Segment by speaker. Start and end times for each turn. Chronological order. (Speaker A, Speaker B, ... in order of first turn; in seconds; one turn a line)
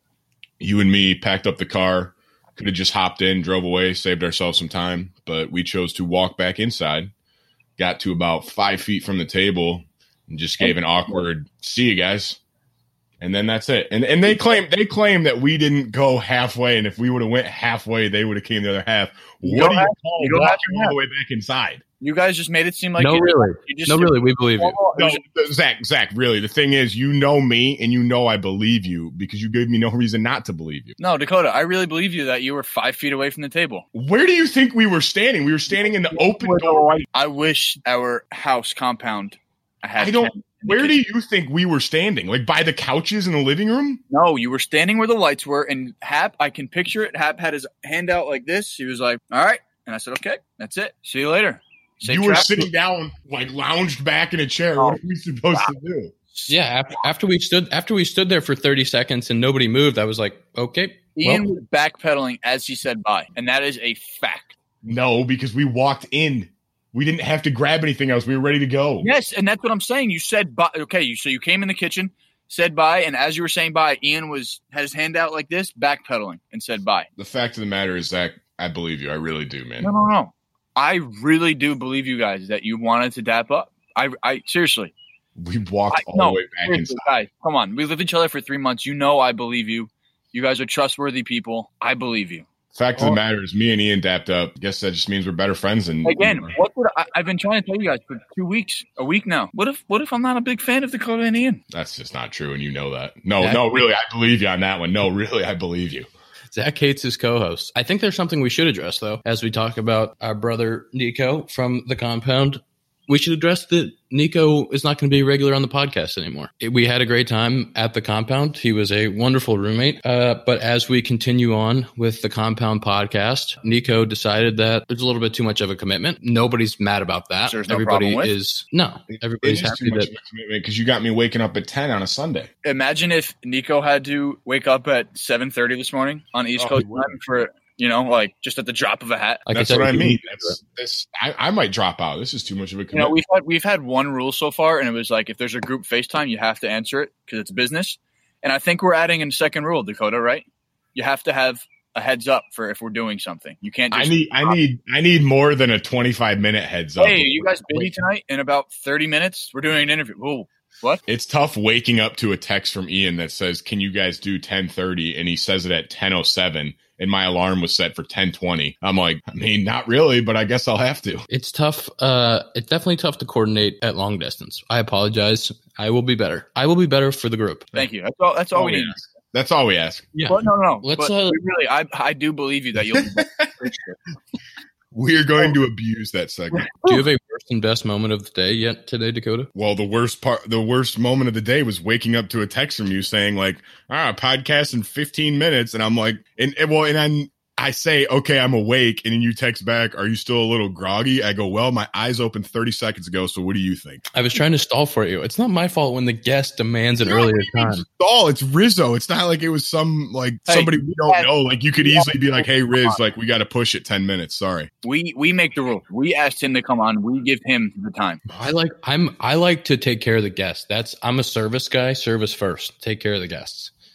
Speaker A: 0.6-7.1
Speaker A: 7.8-12.4
Speaker B: 10.6-11.2
Speaker A: 13.2-21.8
Speaker B: 19.4-21.0
Speaker B: 22.0-25.2
Speaker C: 23.0-24.8
Speaker A: 24.9-30.9
Speaker B: 31.0-33.9
Speaker A: 33.9-37.0
Speaker B: 35.8-40.9
Speaker A: 40.0-44.0
Speaker B: 44.1-52.7
Speaker A: 52.0-56.1
Speaker B: 54.8-55.0
Speaker C: 56.5-61.5
Speaker B: 61.1-64.5
Speaker A: 64.8-69.1
Speaker B: 69.0-77.1
Speaker A: 77.2-79.9
Speaker B: 79.8-84.9
Speaker A: 85.4-87.0
Speaker B: 85.9-93.2
Speaker A: 92.7-96.5
Speaker B: 96.0-101.6
Speaker A: 101.7-106.1
Speaker C: 103.4-103.8
Speaker C: 106.5-130.1
Speaker B: 127.5-128.3
Speaker A: 129.1-132.5
Speaker B: 132.6-139.4
Speaker A: 136.6-137.2
Speaker C: 139.5-140.6
Speaker A: 139.5-143.1
Speaker B: 142.9-154.6
Speaker A: 153.9-157.9
Speaker B: 157.0-161.0
Speaker A: 161.1-171.3
Speaker C: 171.3-177.7
Speaker B: 177.8-179.0
Speaker A: 178.5-180.1
Speaker C: 180.1-181.4
Speaker B: 180.3-184.0
Speaker A: 182.9-183.4
Speaker A: 184.9-187.0
Speaker C: 186.8-189.5
Speaker A: 189.5-204.0
Speaker C: 204.1-207.8
Speaker A: 207.1-214.7
Speaker B: 210.5-211.3
Speaker B: 211.8-213.0
Speaker B: 214.8-218.2
Speaker C: 218.3-223.7